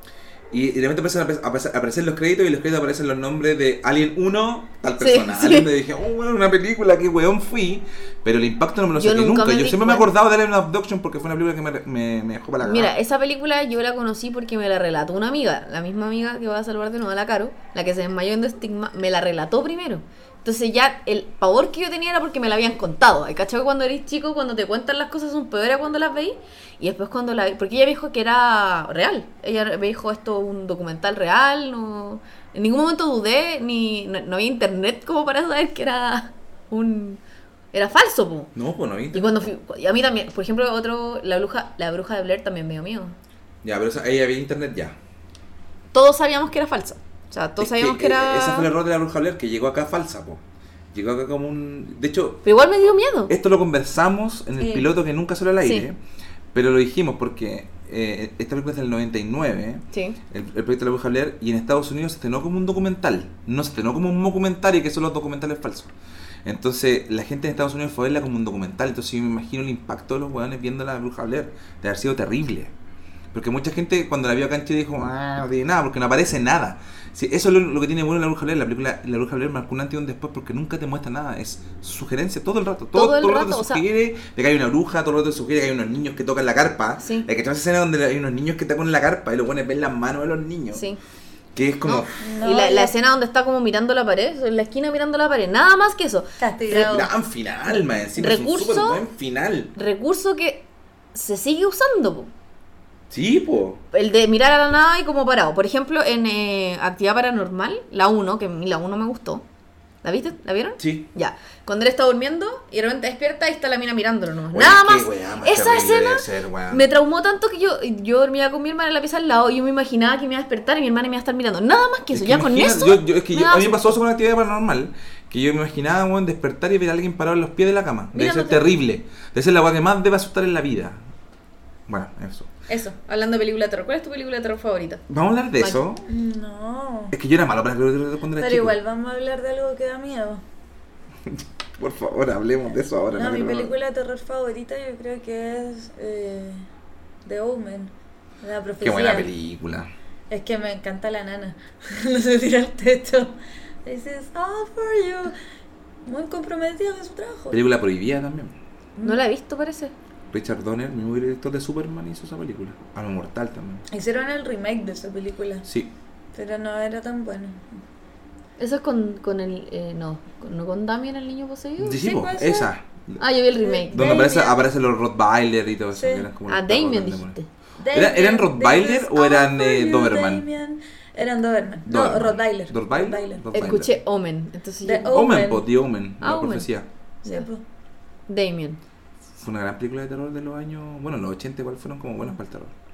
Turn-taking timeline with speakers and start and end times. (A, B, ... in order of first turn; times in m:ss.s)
0:00.5-0:12.9 A
0:05.0-0:05.7 B
0:09.0-0:10.1 B
0:12.6-0:37.2 B
0:37.7-0:38.5 B
0:38.6-0:39.5 A
0:39.1-0:43.2 B
0:43.6-0:45.0 A
0:45.9-0:48.7 B
0:47.6-0:50.4 A
0:50.9-0:52.4 A
0:52.4-0:53.3 B
0:53.3-0:56.0 A
0:54.6-0:54.9 C
0:56.5-1:05.9 A
0:59.9-1:00.2 B
1:06.4-1:12.7 A
1:13.3-1:30.8 A
1:23.0-1:23.8 B
1:27.0-1:27.3 B
1:30.7-1:31.0 B
1:31.6-1:32.1 A
1:31.9-1:36.8 B
1:32.2-1:32.9 C
1:36.4-1:37.1 C
1:36.7-1:39.7 A
1:38.2-1:39.0 B
1:39.8-1:42.3 B
1:43.1-1:43.8 A
1:43.9-1:49.4 B
1:50.0-2:04.0 B
1:50.8-1:51.0 A
1:54.5-1:56.8 A
2:02.1-2:11.0 A
2:08.1-2:08.6 B
2:11.9-2:12.5 A
2:12.7-2:15.0 B
2:15.1-2:16.0 A
2:16.1-2:17.1 C
2:17.1-2:18.8 A
2:18.4-2:20.4 C
2:21.3-2:23.7 A
2:23.2-2:26.6 C
2:27.2-2:27.9 C
2:28.4-2:29.3 C
2:28.8-2:29.9 A
2:30.3-2:35.4 C
2:36.1-2:37.6 C
2:37.5-2:38.5 A
2:39.0-2:39.2 C
2:39.0-2:39.9 B
2:40.3-2:43.8 A
2:43.9-2:45.6 C
2:45.7-2:45.9 A
2:46.4-2:47.8 C
2:48.6-2:52.0 B
2:51.8-2:53.2 A
2:52.0-2:52.7 C
2:53.2-2:54.1 B
2:53.6-2:54.6 C
2:53.9-2:57.4 A
2:56.0-2:56.3 C
2:56.5-2:57.5 B
2:57.8-3:03.5 C
2:57.9-3:00.4 A
3:01.9-3:04.0 A
3:03.5-3:05.1 B
3:04.8-3:05.7 C
3:05.1-3:06.9 A
3:06.2-3:06.7 B
3:07.2-3:07.6 C
3:08.3-3:08.8 B
3:09.4-3:12.7 A